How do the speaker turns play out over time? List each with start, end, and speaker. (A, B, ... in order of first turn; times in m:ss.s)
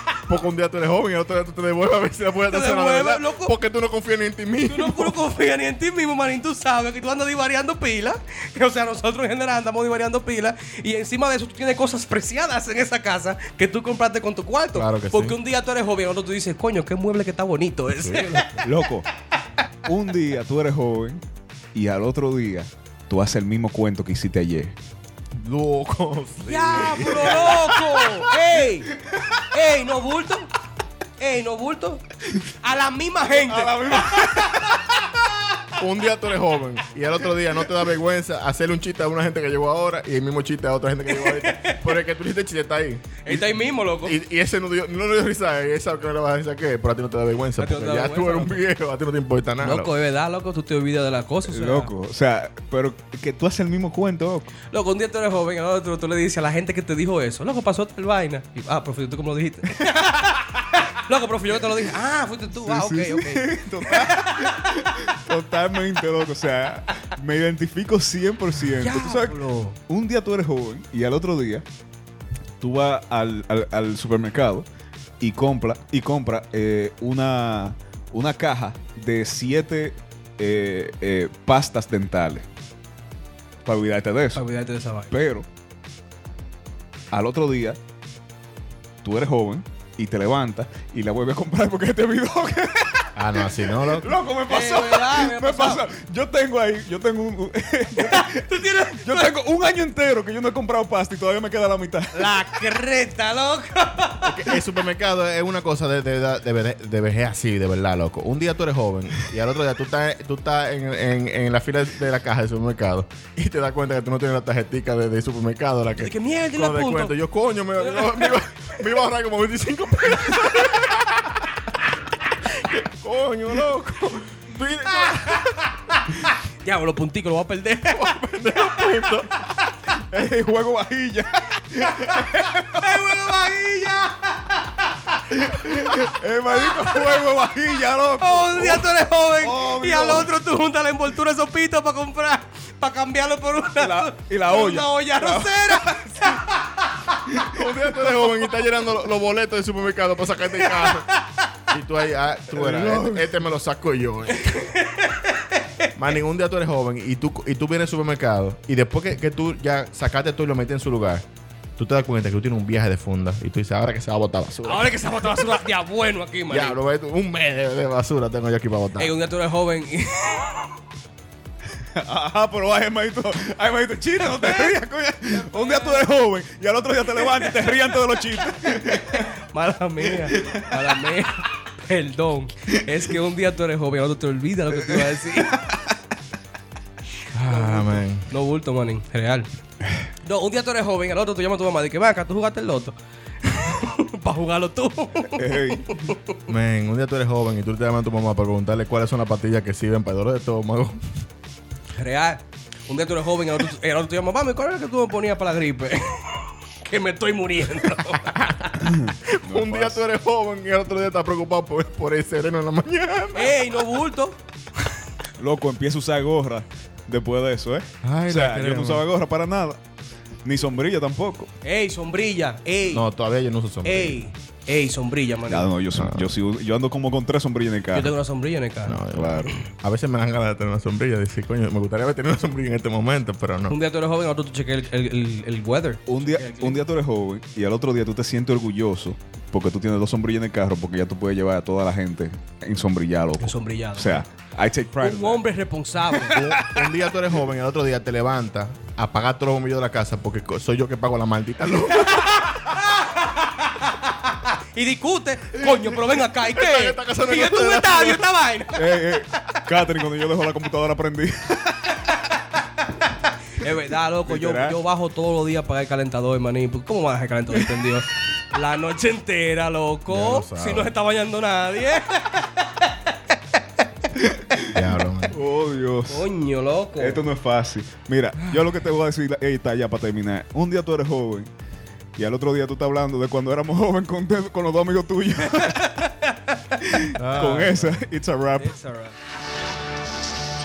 0:00.3-0:05.2 A
0:02.5-0:03.5 B
0:04.7-0:18.6 B
0:14.7-0:15.4 A
0:17.9-0:18.6 A
0:18.6-0:19.1 C
0:19.8-0:21.2 C
0:21.8-0:24.7 C
0:25.3-0:27.8 A
0:26.5-0:28.9 B
0:29.0-0:29.5 C
0:29.5-0:30.5 B
0:31.2-0:32.0 B
0:32.6-0:34.8 B
0:33.3-0:35.2 C
0:35.8-0:43.5 A
0:41.1-0:41.9 B
0:43.3-0:44.2 B
0:44.0-0:49.9 A
0:47.6-0:48.6 B
0:49.6-0:51.9 B
0:51.4-0:54.5 C
0:54.7-1:04.7 B
1:02.5-1:11.6 C
1:08.8-1:09.8 B
1:12.6-1:14.6 C
1:15.2-1:22.5 C
1:23.6-1:24.4 C
1:24.3-1:25.1 B
1:25.1-1:25.5 C
1:27.1-1:27.8 C
1:29.0-1:42.5 C
1:33.2-1:34.2 A
1:34.5-1:35.8 B
1:38.0-1:39.3 B
1:42.1-1:44.6 B
1:44.2-2:01.8 A
1:56.0-1:57.2 B
1:57.8-1:58.4 B
2:02.4-2:06.0 A
2:06.6-2:08.1 B
2:07.9-2:09.3 A
2:10.0-2:13.1 C
2:11.8-2:15.3 B
2:15.3-2:20.3 C
2:16.5-2:17.2 B
2:18.2-2:27.3 B
2:23.8-2:26.0 C
2:27.5-2:31.1 A
2:30.8-2:31.4 B
2:31.7-2:34.7 A
2:32.5-2:33.4 C
2:34.4-2:35.9 B
2:36.0-2:41.2 A
2:41.8-2:45.4 A
2:44.6-2:46.8 B
2:46.5-2:49.1 A
2:49.0-2:50.7 B
2:52.0-2:59.3 C
2:54.4-2:54.8 B
2:55.4-2:56.1 B
2:59.2-3:05.7 B
3:00.2-3:01.0 C
3:05.4-3:05.9 C
3:07.3-3:08.3 A
3:07.5-3:09.5 B
3:10.2-3:16.4 B
3:15.4-3:16.1 C
3:16.5-3:21.0 A
3:22.0-3:28.6 B
3:28.2-3:28.7 A
3:28.8-3:30.0 C
3:29.2-3:33.6 A
3:33.4-3:34.4 B
3:35.4-3:39.8 C
3:38.0-3:39.0 A
3:40.4-3:41.5 C
3:41.6-3:43.1 B
3:42.9-3:44.2 A
3:43.8-3:45.7 B
3:45.5-3:48.1 C
3:46.0-3:46.3 A
3:47.9-3:49.6 B
3:48.9-3:53.8 A
3:49.1-3:49.5 C
3:53.7-3:56.8 B
3:56.1-4:05.4 C
4:03.4-4:04.2 B
4:05.0-4:06.4 B
4:06.1-4:06.6 C
4:06.3-4:12.6 A
4:12.1-4:19.6 B
4:16.5-4:18.2 A
4:18.7-4:22.1 C
4:23.6-4:33.0 B
4:24.3-4:24.8 C
4:30.1-4:30.9 A
4:34.2-4:36.3 C
4:34.7-4:35.4 A
4:36.1-4:37.2 B
4:37.0-4:41.5 C
4:42.2-4:46.0 C
4:45.5-4:46.3 B
4:46.8-4:48.7 C
4:47.2-4:47.9 B
4:47.2-4:47.9 A
4:48.6-4:49.2 B